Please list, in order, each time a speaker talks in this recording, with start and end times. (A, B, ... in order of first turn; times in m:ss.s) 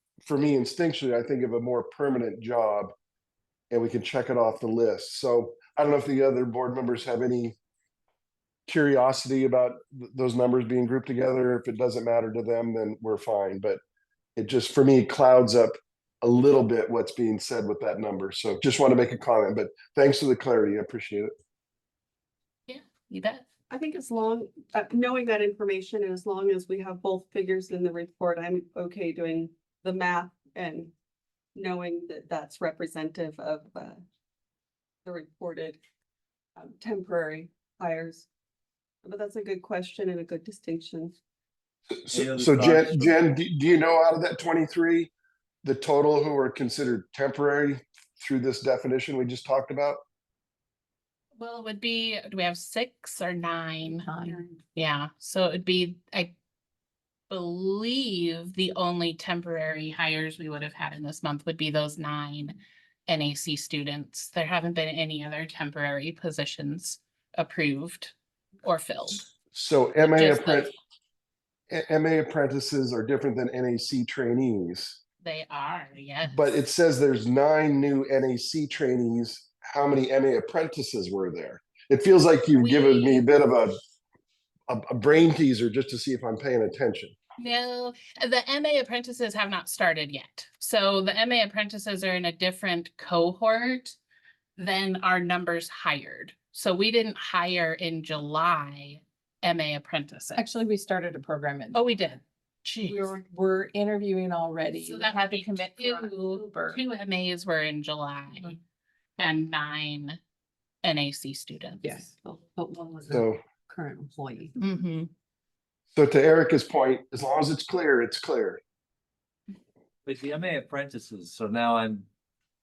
0:00.3-0:02.9 A
0:03.7-0:07.5 A
0:08.7-0:13.8 A
0:14.4-0:21.3 A
0:22.7-0:23.4 B
0:23.7-0:30.9 C
0:31.5-0:34.0 C
0:35.0-0:35.8 C
0:36.6-0:38.3 C
0:39.0-0:41.2 C
0:42.0-0:45.1 A
0:42.1-0:43.2 D
0:45.6-0:50.0 A
0:51.4-0:56.3 B
0:54.1-0:54.4 E
0:57.3-1:09.2 B
1:09.5-1:10.7 A
1:10.0-1:10.7 B
1:11.7-1:15.0 A
1:15.2-1:16.5 B
1:16.2-1:23.7 A
1:22.6-1:23.2 B
1:24.7-1:27.1 A
1:27.4-1:34.0 B
1:34.6-1:40.4 B
1:40.4-1:41.8 E
1:41.7-1:43.1 B
1:42.9-1:46.8 E
1:44.8-1:48.6 B
1:49.2-1:50.2 B
1:50.8-1:51.8 B
1:51.8-1:54.6 F
1:53.1-1:53.4 A
1:54.6-1:55.1 B
1:55.9-1:58.6 A
2:00.0-2:02.1 D